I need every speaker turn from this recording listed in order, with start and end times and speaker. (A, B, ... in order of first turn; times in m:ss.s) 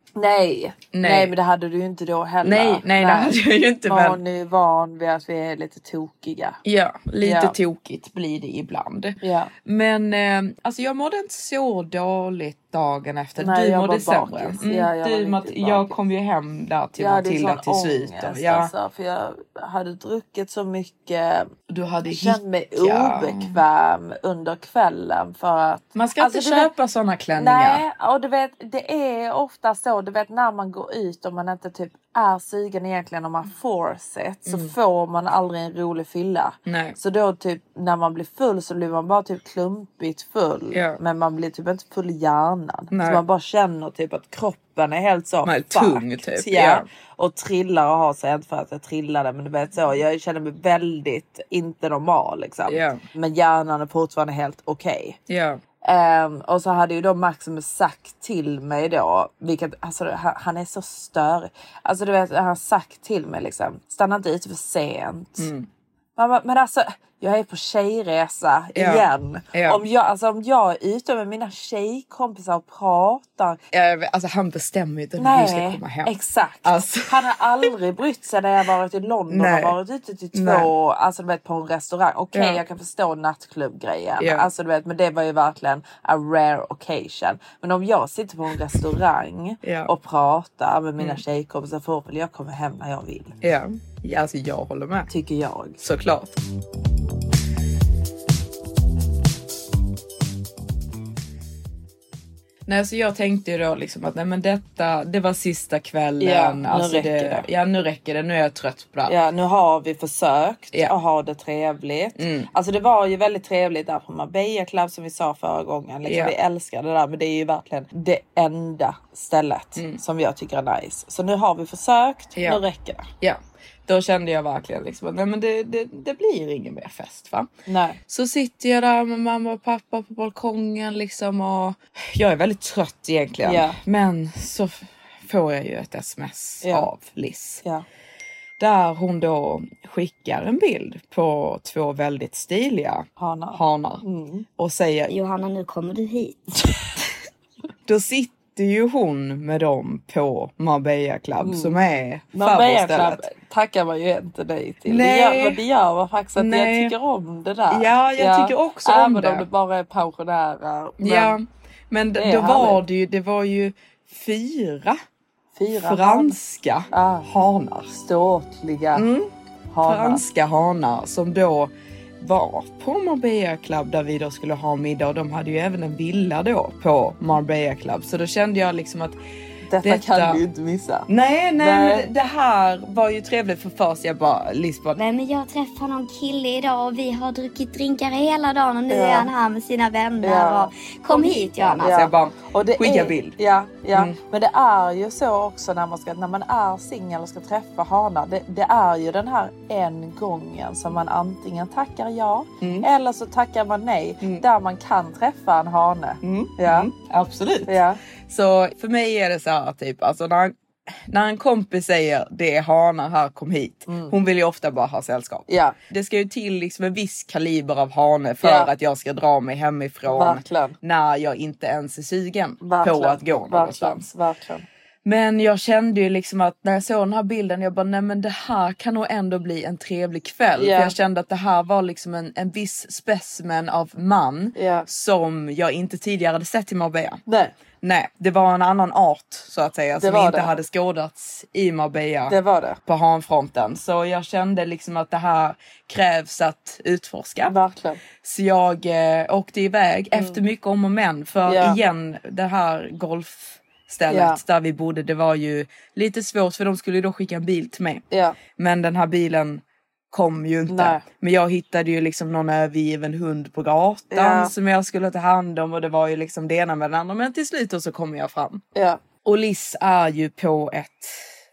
0:00.2-0:06.6 A
0:00.9-0:01.3 B
0:02.4-0:04.2 B
0:06.6-0:18.7 B
0:07.2-0:07.6 A
0:09.2-0:09.5 A
0:13.4-0:16.0 A
0:17.0-0:21.5 A
0:21.7-0:23.6 B
0:22.1-0:26.7 A
0:26.0-0:27.8 B
0:27.4-0:55.2 A
0:34.5-0:34.7 B
0:36.7-0:37.0 B
0:40.7-0:41.0 B
0:42.9-0:43.2 B
0:45.4-0:46.9 B
0:52.7-0:53.0 B
0:55.3-0:55.6 B
0:55.8-1:05.5 A
1:05.4-1:05.7 B
1:06.2-1:13.6 A
1:08.8-1:09.8 B
1:13.7-1:17.3 B
1:15.2-1:33.4 A
1:19.3-1:19.8 B
1:20.3-1:20.7 B
1:22.3-1:22.6 B
1:24.2-1:24.5 B
1:29.6-1:29.9 B
1:33.4-1:35.1 B
1:35.1-1:35.8 A
1:35.8-1:36.4 B
1:42.7-1:49.2 B
1:46.2-1:47.4 A
1:49.1-2:03.1 A
1:52.2-1:52.5 B
1:56.1-1:56.4 B
2:02.4-2:02.6 B
2:03.2-2:07.5 B
2:07.7-2:08.0 A
2:08.1-2:17.6 B
2:13.4-2:13.8 A
2:16.6-2:16.9 A
2:18.6-2:24.0 B
2:23.2-2:24.5 A
2:24.6-2:25.2 B
2:25.1-2:26.5 C
2:27.9-2:33.3 B
2:31.4-2:31.8 A
2:32.3-2:41.4 A
2:34.9-2:35.6 B
2:36.4-2:37.0 B
2:37.7-2:39.5 B
2:41.0-2:45.0 B
2:42.2-2:42.8 A
2:45.6-2:46.4 A
2:45.7-2:48.0 B
2:46.9-2:47.3 A
2:48.0-2:49.0 A
2:48.9-2:49.3 B
2:49.7-2:50.2 A
2:49.8-2:59.2 B
2:59.7-3:02.1 A
2:59.8-3:00.4 B
3:01.1-3:05.0 B
3:05.0-3:12.0 C
3:08.9-3:09.3 A
3:10.2-3:26.9 A
3:11.8-3:13.4 B
3:22.6-3:22.9 B
3:26.2-3:44.1 B
3:27.7-3:28.0 A
3:33.9-3:34.2 A
3:35.5-3:35.8 A
3:38.4-3:38.7 A
3:40.1-3:40.8 A
3:42.6-3:44.7 A
3:45.0-3:57.2 B
3:50.6-3:51.0 A
3:54.6-3:54.9 A
3:57.3-3:57.5 A
3:57.8-4:07.6 B
4:00.0-4:00.5 A
4:02.3-4:02.8 A
4:07.4-4:08.0 A
4:08.2-4:18.0 B
4:10.2-4:10.4 A
4:11.5-4:11.8 A
4:14.1-4:14.4 A
4:18.1-4:18.4 A
4:18.6-4:28.6 B
4:20.7-4:21.0 A
4:24.1-4:24.5 A
4:28.8-4:29.0 A
4:29.2-4:31.2 B